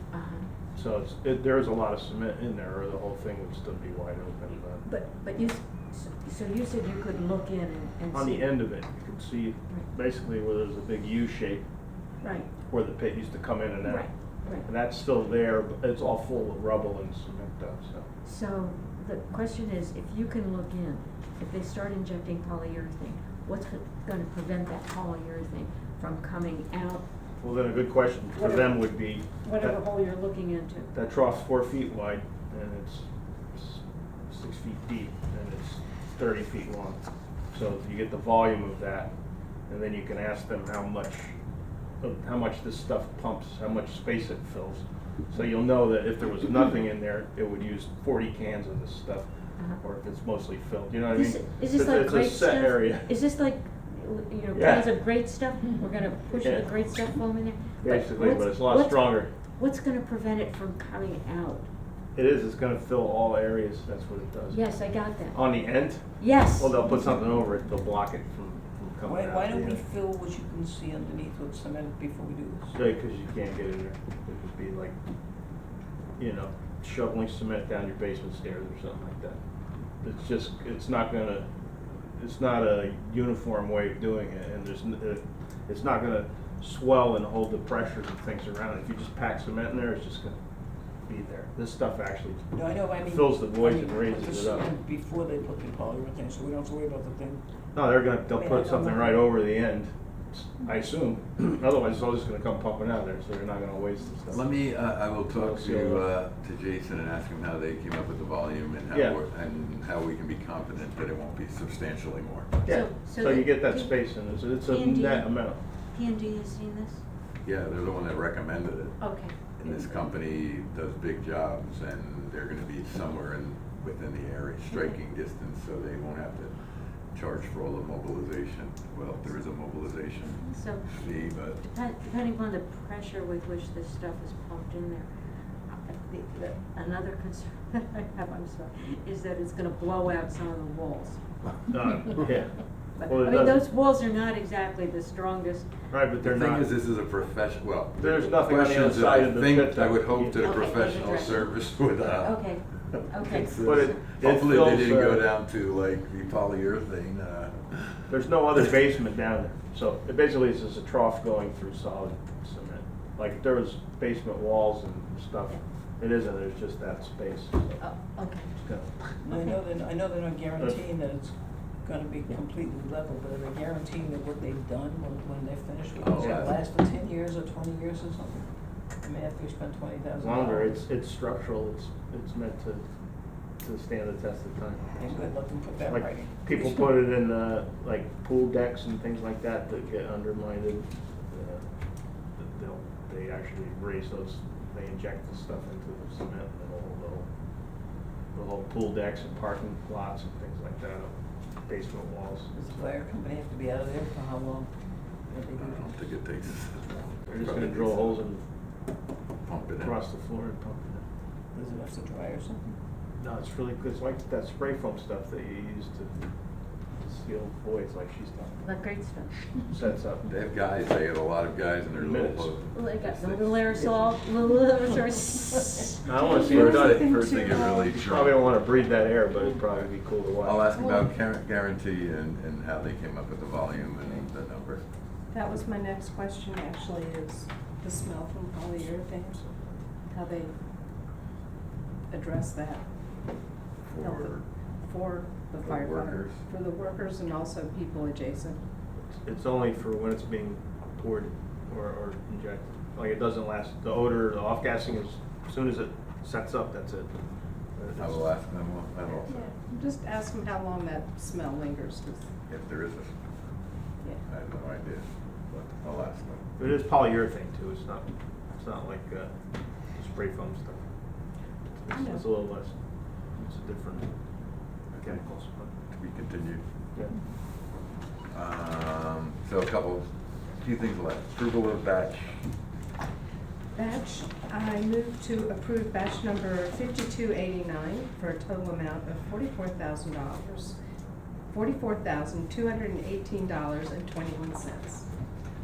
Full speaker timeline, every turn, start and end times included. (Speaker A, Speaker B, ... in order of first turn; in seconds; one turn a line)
Speaker A: 0.1-0.5
Speaker B: 0.7-4.8
Speaker A: 4.8-8.5
Speaker B: 8.1-11.7
Speaker A: 12.2-12.5
Speaker B: 12.7-18.1
Speaker A: 13.9-14.7
Speaker A: 18.2-27.1
Speaker B: 27.4-29.8
Speaker A: 28.4-30.9
Speaker B: 30.9-37.0
Speaker B: 37.5-39.1
Speaker B: 39.7-41.4
Speaker B: 42.0-53.1
Speaker A: 51.1-61.6
Speaker B: 54.5-54.9
Speaker B: 56.3-56.7
Speaker B: 57.8-59.3
Speaker B: 62.1-69.8
Speaker A: 64.5-65.5
Speaker A: 66.2-66.9
Speaker C: 69.0-72.7
Speaker B: 72.7-75.0
Speaker B: 76.2-79.4
Speaker B: 80.0-81.5
Speaker B: 82.2-90.3
Speaker B: 91.1-94.7
Speaker C: 92.5-97.4
Speaker B: 97.7-104.5
Speaker C: 98.5-99.0
Speaker D: 104.3-112.6
Speaker B: 105.3-106.1
Speaker B: 108.9-109.2
Speaker B: 112.6-115.6
Speaker A: 112.7-117.0
Speaker D: 117.5-131.6
Speaker A: 119.0-120.2
Speaker A: 124.7-125.0
Speaker A: 130.4-135.1
Speaker A: 135.6-141.2
Speaker B: 141.6-143.6
Speaker A: 143.0-145.7
Speaker B: 145.9-146.7
Speaker D: 146.2-158.1
Speaker B: 148.0-150.9
Speaker A: 150.4-151.5
Speaker A: 152.2-153.9
Speaker B: 153.6-155.3
Speaker B: 158.1-167.8
Speaker A: 167.8-168.5
Speaker B: 168.6-169.2
Speaker C: 169.2-178.5
Speaker D: 176.0-176.6
Speaker C: 179.0-180.7
Speaker B: 180.2-182.8
Speaker B: 183.6-185.2
Speaker C: 185.0-186.7
Speaker B: 185.9-191.7
Speaker B: 192.4-197.3
Speaker B: 198.3-201.1
Speaker B: 201.7-202.5
Speaker C: 202.5-204.7
Speaker C: 205.3-206.1
Speaker D: 205.6-208.2
Speaker B: 207.3-208.4
Speaker D: 209.4-210.0
Speaker B: 209.8-211.0
Speaker C: 211.5-212.8
Speaker B: 213.2-216.2
Speaker B: 217.0-218.8
Speaker A: 218.6-219.4
Speaker B: 219.7-220.2
Speaker D: 220.2-223.6
Speaker B: 221.9-222.6
Speaker A: 222.7-226.1
Speaker B: 226.1-230.6
Speaker E: 226.2-228.0
Speaker D: 226.5-228.4
Speaker D: 230.4-234.8
Speaker E: 230.8-231.1
Speaker E: 235.3-239.4
Speaker B: 239.5-239.8
Speaker E: 240.1-240.5
Speaker E: 242.1-242.8
Speaker D: 243.9-244.4
Speaker E: 244.0-248.6
Speaker D: 245.6-246.4
Speaker B: 249.1-257.1
Speaker B: 257.8-258.4
Speaker D: 258.0-259.5
Speaker E: 259.3-262.3
Speaker D: 262.5-263.3
Speaker D: 264.2-266.4
Speaker B: 266.6-269.3
Speaker B: 269.9-270.9
Speaker B: 271.7-272.8
Speaker A: 271.9-272.2
Speaker B: 273.3-274.1
Speaker D: 274.9-275.3
Speaker B: 275.0-275.7
Speaker D: 275.9-276.6
Speaker D: 278.3-282.5
Speaker E: 283.8-290.8
Speaker E: 291.5-295.1